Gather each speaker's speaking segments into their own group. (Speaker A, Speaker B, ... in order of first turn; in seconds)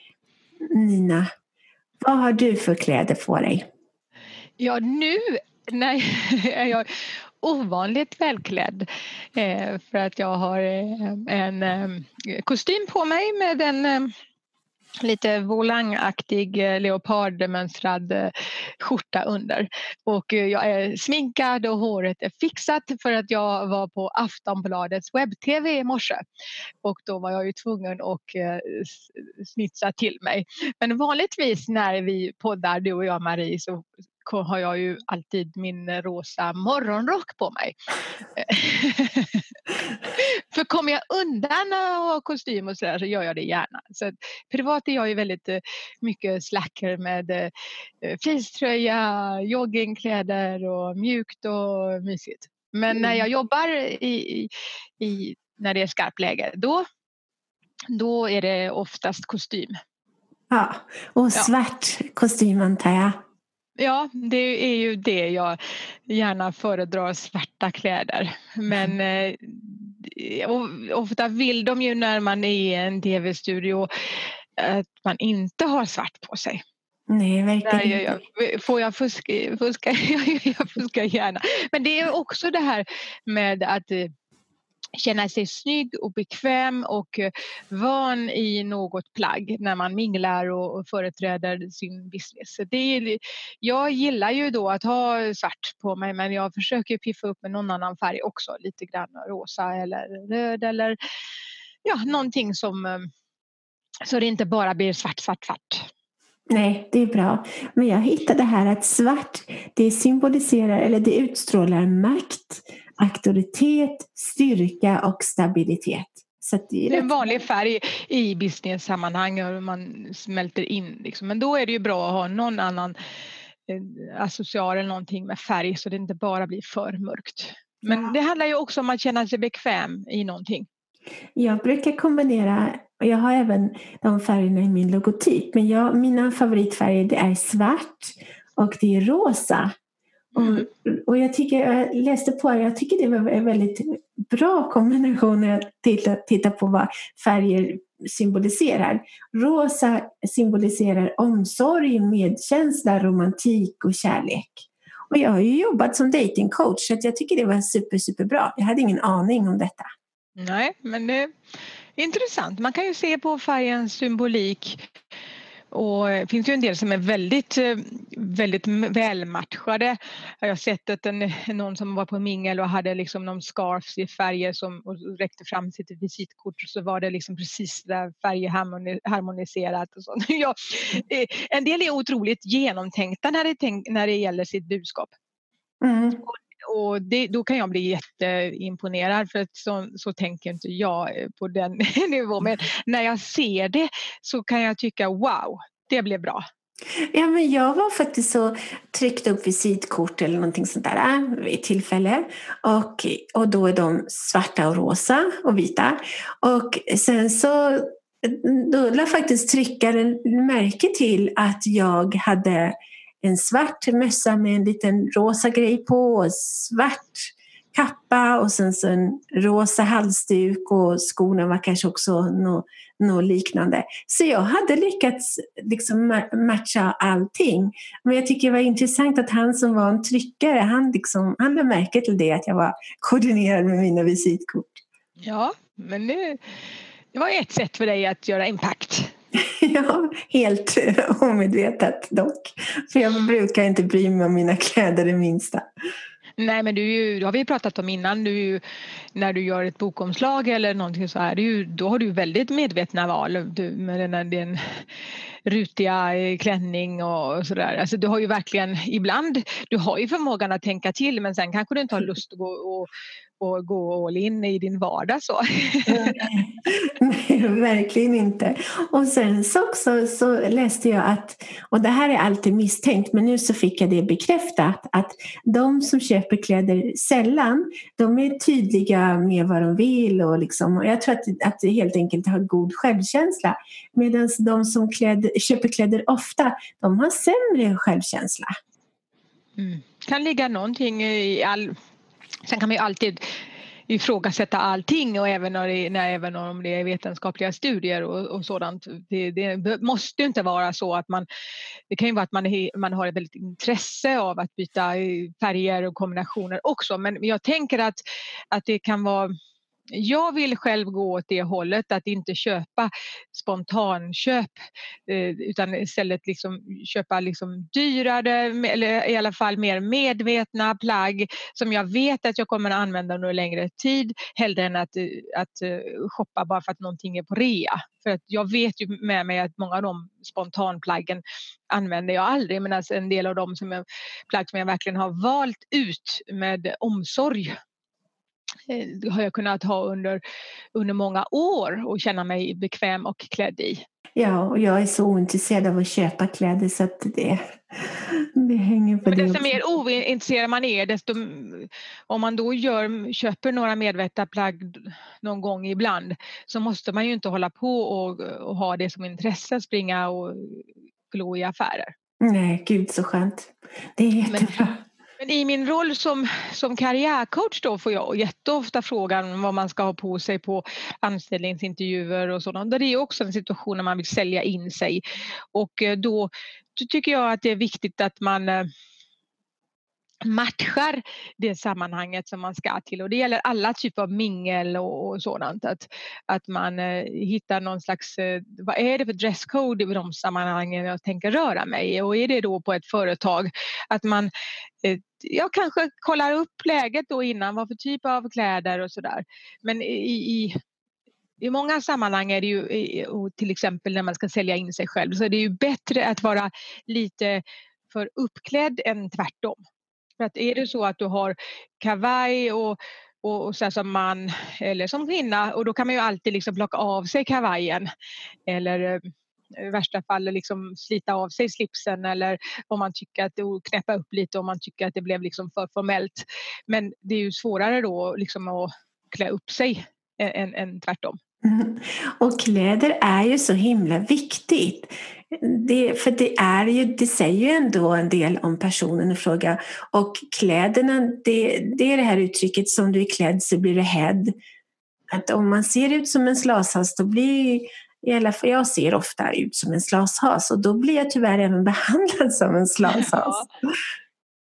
Speaker A: 0.7-1.3, 2.0-3.7, 52.9-53.2, 60.5-63.2, 77.1-78.2, 106.5-117.2, 127.9-128.2, 131.4-139.7, 140.3-159.9, 185.8-186.2, 197.1-234.8, 239.4-245.7, 265.9-288.5, 344.2-349.6, 362.2-364.8, 431.4-444.4, 445.1-453.7
Speaker B: 4.6-6.9, 7.4-14.1, 15.0-26.2, 26.8-37.8, 38.4-39.6, 40.2-47.5, 48.0-56.8, 57.9-59.8, 63.8-73.9, 74.6-76.6, 77.7-84.1, 85.0-101.0, 101.8-103.1, 104.0-105.9, 116.9-123.0, 123.7-130.7, 140.4-140.7, 160.4-161.3, 162.0-164.9, 165.7-185.1, 186.2-196.4, 235.2-236.4, 237.1-239.1, 246.4-248.6, 249.2-254.8, 255.5-262.9, 263.4-266.3, 289.6-291.8, 292.4-293.2, 293.9-301.3, 301.9-309.3, 309.9-314.6, 315.1-337.5, 338.7-340.2, 340.8-343.8, 349.1-361.9, 364.3-364.6, 365.2-375.0, 375.5-378.7, 380.2-394.3, 394.8-400.5, 401.4-409.6, 410.2-417.9, 418.5-431.2, 452.9-453.5